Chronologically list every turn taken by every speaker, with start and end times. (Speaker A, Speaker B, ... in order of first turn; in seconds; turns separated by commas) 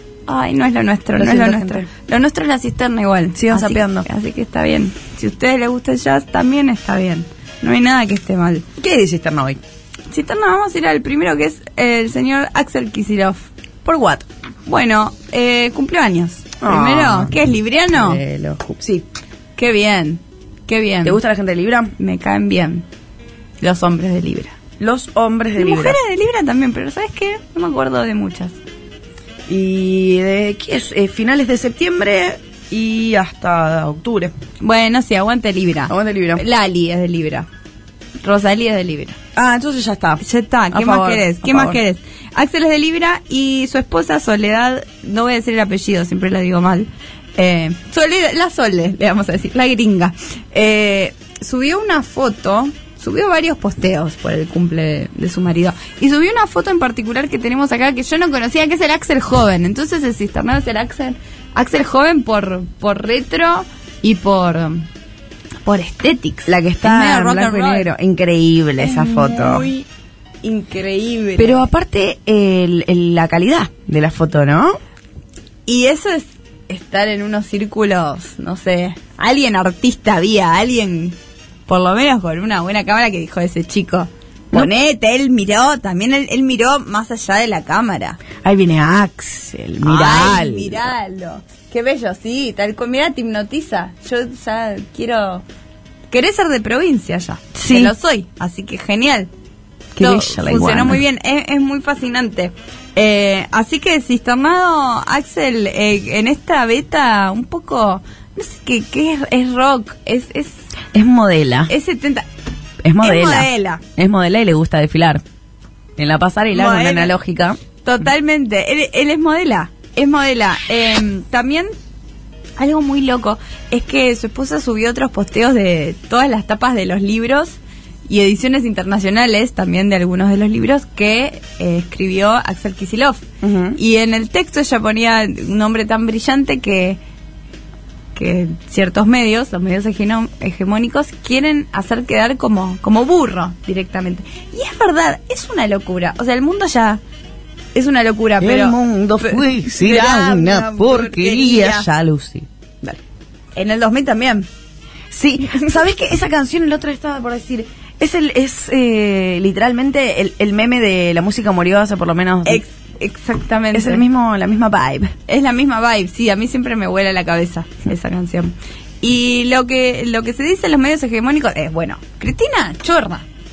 Speaker A: 0.3-8.6, Speaker B: 1.1-1.9, Speaker B: 3.3-4.0, Speaker B: 8.8-9.6, Speaker A: 10.1-13.5, Speaker B: 13.8-14.2, Speaker A: 14.7-18.2, Speaker B: 16.6-17.4, Speaker B: 17.9-19.1, Speaker A: 19.6-21.2, Speaker B: 21.0-21.9, Speaker A: 22.0-22.8, Speaker A: 23.6-24.6, Speaker B: 24.8-26.0, Speaker A: 25.6-28.6, Speaker B: 29.5-34.3, Speaker A: 34.6-37.5, Speaker B: 35.9-36.4, Speaker A: 38.2-39.1, Speaker B: 39.3-41.8, Speaker A: 40.2-64.8, Speaker A: 65.6-67.9, Speaker B: 66.5-69.7, Speaker A: 68.8-69.8, Speaker A: 70.4-71.7, Speaker B: 71.4-74.8, Speaker A: 75.7-81.2, Speaker A: 81.7-88.2, Speaker B: 88.4-90.9, Speaker A: 89.8-95.4, Speaker A: 96.1-99.3, Speaker B: 97.5-97.9, Speaker B: 99.9-101.0, Speaker A: 100.0-110.6, Speaker B: 110.9-111.7, Speaker A: 111.7-112.2, Speaker B: 112.8-115.2, Speaker A: 113.0-113.8, Speaker B: 116.0-117.6, Speaker A: 116.5-117.1, Speaker A: 117.8-121.7, Speaker A: 122.6-133.2, Speaker B: 133.4-133.8, Speaker A: 133.8-137.0, Speaker A: 138.2-147.0, Speaker A: 147.7-151.8, Speaker B: 148.4-153.0, Speaker A: 153.6-154.4, Speaker B: 155.1-162.6, Speaker A: 162.4-164.0, Speaker B: 163.7-165.1, Speaker A: 165.3-173.2